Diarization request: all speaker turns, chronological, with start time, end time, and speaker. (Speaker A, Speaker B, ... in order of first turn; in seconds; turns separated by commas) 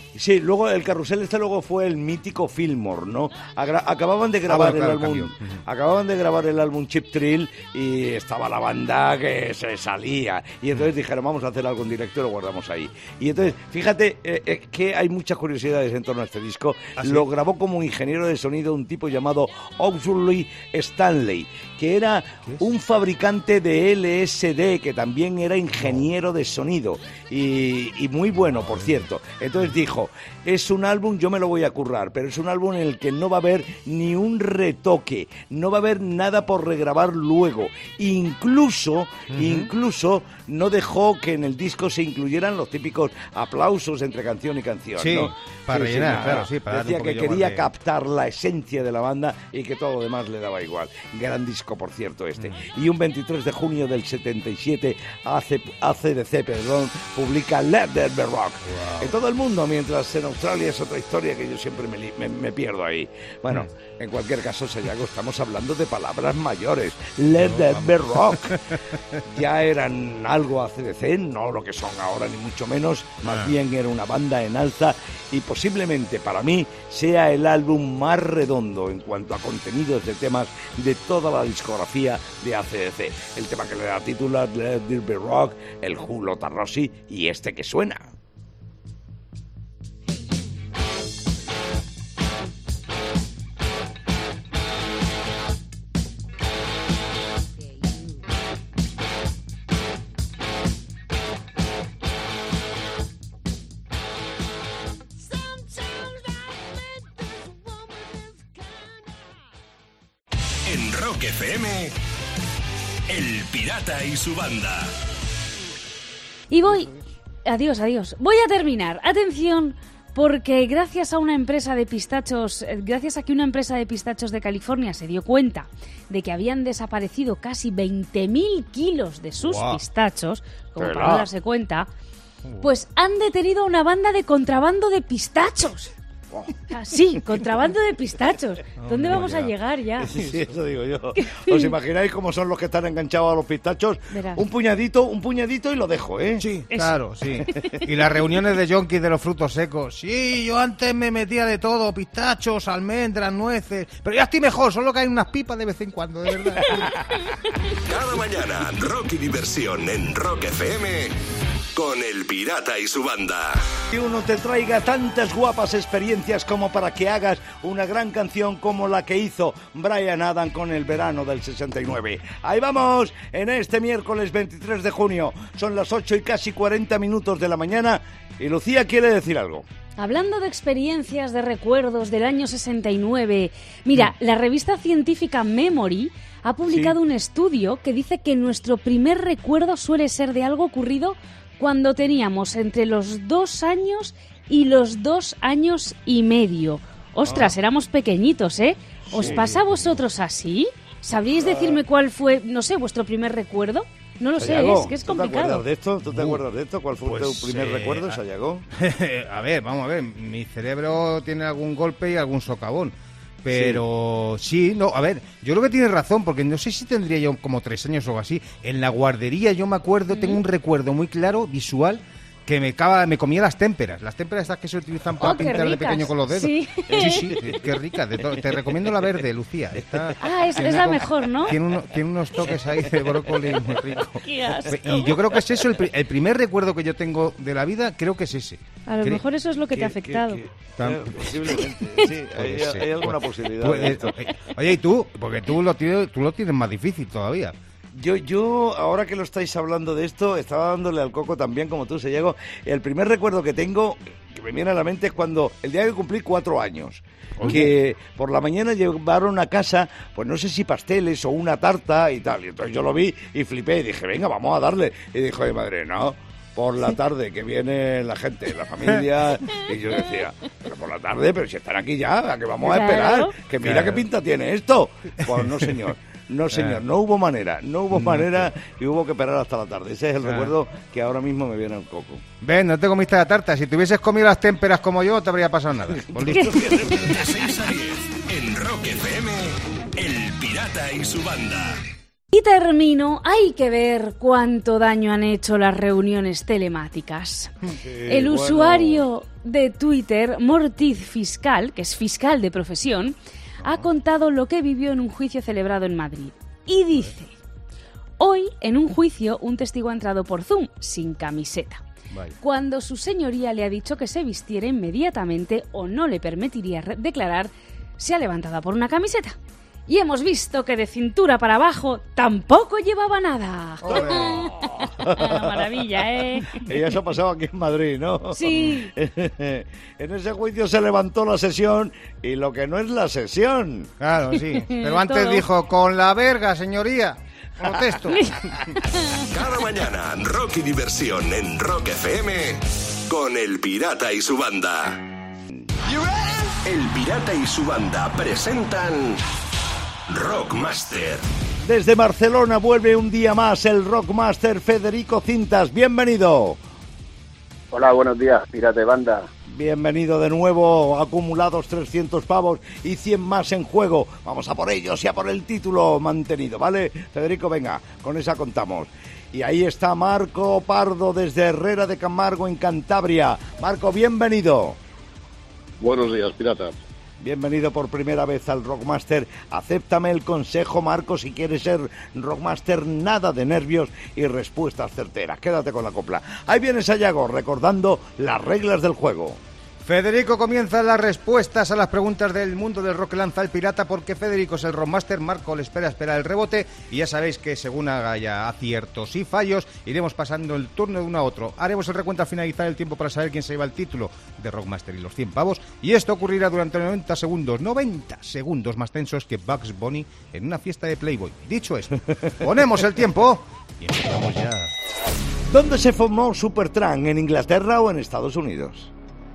Speaker A: 0.1-88.1, Speaker B: 4.5-5.6, Speaker B: 17.0-17.3, Speaker B: 39.3-39.7, Speaker B: 45.0-47.6, Speaker B: 58.7-59.1, Speaker B: 67.4-69.2, Speaker B: 73.2-73.5, Speaker C: 110.6-112.0, Speaker C: 113.1-115.0, Speaker D: 116.5-116.9, Speaker D: 117.5-131.9, Speaker B: 129.4-129.8, Speaker A: 130.8-131.3, Speaker D: 132.6-135.9, Speaker D: 136.7-140.1, Speaker B: 138.8-139.5, Speaker A: 140.0-146.5, Speaker D: 141.2-141.7, Speaker D: 144.1-144.4, Speaker B: 146.4-156.9, Speaker D: 147.5-147.8, Speaker C: 157.8-161.2, Speaker C: 161.7-163.7, Speaker A: 163.9-179.7, Speaker D: 180.0-205.6, Speaker A: 186.7-187.0, Speaker B: 197.3-197.5, Speaker A: 199.1-199.5, Speaker B: 199.1-199.9, Speaker A: 201.3-201.8, Speaker A: 204.4-208.7, Speaker B: 206.1-206.4, Speaker B: 207.1-208.2, Speaker B: 208.8-239.2, Speaker A: 213.5-213.8, Speaker D: 220.1-220.4, Speaker D: 225.2-227.4, Speaker A: 226.9-227.5, Speaker D: 230.2-231.6, Speaker D: 234.2-235.4, Speaker D: 238.9-240.4, Speaker A: 239.7-244.1, Speaker B: 240.8-241.6, Speaker B: 242.3-247.6, Speaker A: 247.9-282.2, Speaker B: 257.4-257.7, Speaker D: 272.6-273.4, Speaker B: 273.6-274.0, Speaker B: 276.5-276.8, Speaker B: 277.9-278.5, Speaker B: 280.2-280.5, Speaker B: 282.4-286.8, Speaker A: 286.0-287.2, Speaker D: 286.3-286.6, Speaker C: 286.9-291.8, Speaker D: 292.3-297.5, Speaker A: 297.8-299.1, Speaker D: 298.1-307.3, Speaker B: 303.6-303.9, Speaker D: 308.2-311.8, Speaker B: 312.1-312.4, Speaker D: 312.4-319.4, Speaker D: 319.9-326.7, Speaker B: 323.8-324.6, Speaker A: 323.9-325.8, Speaker A: 326.5-333.9, Speaker D: 328.3-328.9, Speaker B: 334.0-338.5, Speaker D: 334.6-335.4, Speaker D: 338.2-339.2, Speaker C: 339.3-345.1, Speaker C: 346.5-349.2, Speaker C: 350.1-351.2, Speaker A: 351.6-356.6, Speaker E: 357.7-359.3, Speaker A: 359.5-374.8, Speaker E: 375.8-376.8, Speaker A: 377.2-389.4, Speaker B: 389.9-414.7, Speaker A: 415.5-418.9